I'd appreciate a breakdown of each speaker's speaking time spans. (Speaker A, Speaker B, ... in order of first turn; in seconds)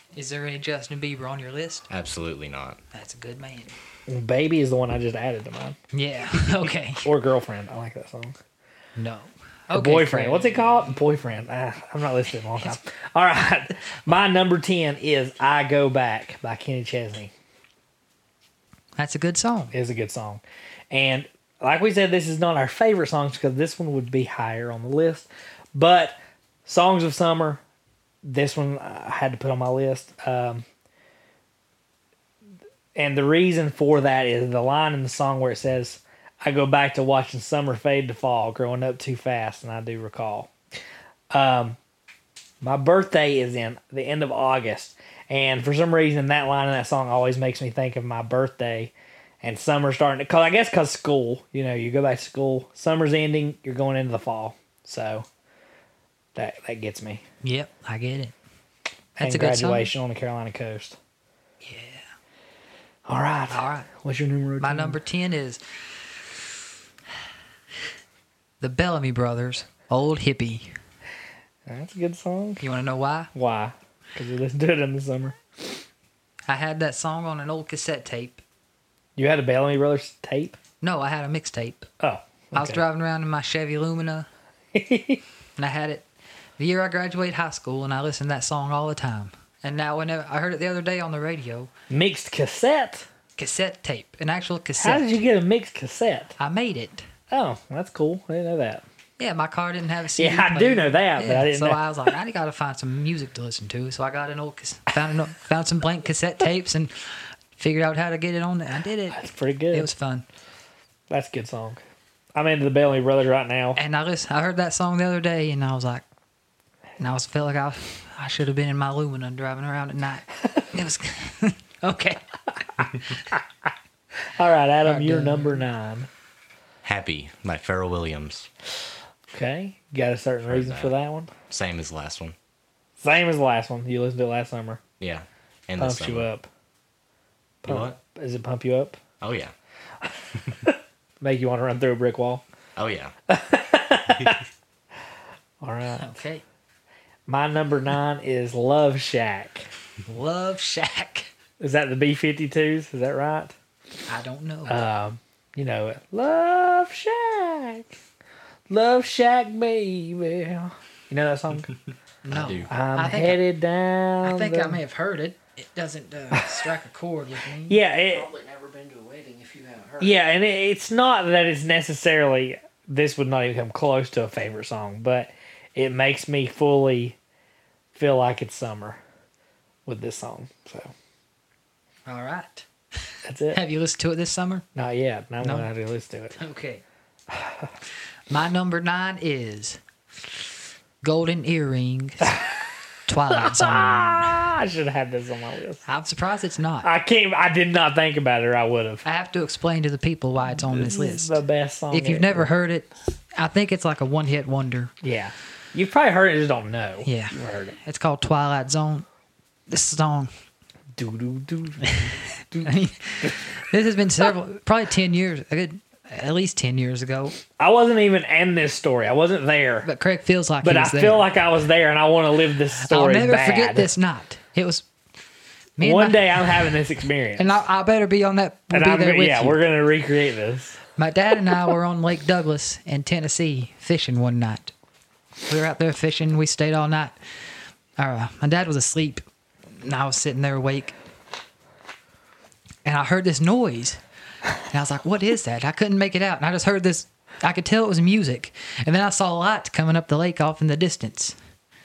Speaker A: 0.1-1.9, 2.9-3.7, 5.9-7.1, 8.9-10.8, 18.9-19.7, 57.4-58.3, 59.2-59.9, 61.6-62.0, 63.5-63.9, 64.6-65.6, 68.6-70.7, 72.6-73.3, 76.5-78.4, 80.8-81.9, 82.5-84.3, 85.6-86.0, 86.6-91.7, 93.4-95.1, 96.4-97.1, 99.2-106.9, 107.5-110.2, 113.8-116.0, 117.0-122.2, 124.8-125.6, 145.9-146.4, 150.1-151.3, 154.1-154.8, 162.2-163.4, 164.2-167.8, 182.1-184.6, 185.4-185.7, 186.3-186.8, 188.3-189.8, 191.0-192.4, 193.1-194.4, 195.8-196.9, 199.0-201.4, 201.9-204.9, 207.0-209.1, 209.7-210.3, 211.8-217.3, 219.8-221.3, 222.8-224.8, 225.8-226.3, 227.4-229.6, 231.0-234.7, 235.5-237.2, 238.0-240.9, 242.8-244.0, 244.7-251.3
Speaker B: 1.9-2.8, 126.8-128.5, 130.4-130.9, 131.5-132.3, 135.0-136.3, 137.6-138.0, 139.2-139.5, 142.8-143.1, 162.3-162.7
Speaker C: 4.1-5.8, 7.0-8.3, 9.7-17.3, 19.7-27.6, 28.2-30.6, 32.9-40.5, 41.3-41.8, 42.6-55.2, 56.3-57.2, 59.2-61.0, 63.0-65.0, 71.7-72.6, 73.3-75.4, 79.2-80.6, 82.0-82.8, 84.7-85.2, 91.9-93.1, 94.8-96.3, 97.3-98.8, 100.2-101.8, 109.1-109.9, 111.1-111.8, 112.3-113.8, 124.3-126.1, 129.3-131.3, 133.0-134.8, 135.8-136.5, 137.6-139.0, 140.7-142.4, 143.3-144.4, 145.6-146.1, 147.3-149.7, 151.6-153.5, 154.7-157.9, 158.7-161.7, 162.7-164.8, 166.3-166.6, 167.7-168.3, 170.0-177.2, 177.9-179.0, 179.8-180.9, 183.2-183.6, 184.7-186.3, 187.3-187.7, 193.3-195.8, 196.8-199.0, 200.5-202.5, 205.0-207.8, 210.9-213.4, 217.6-219.9, 220.6-223.9, 225.8-227.5, 228.7-230.8
Speaker D: 168.0-170.2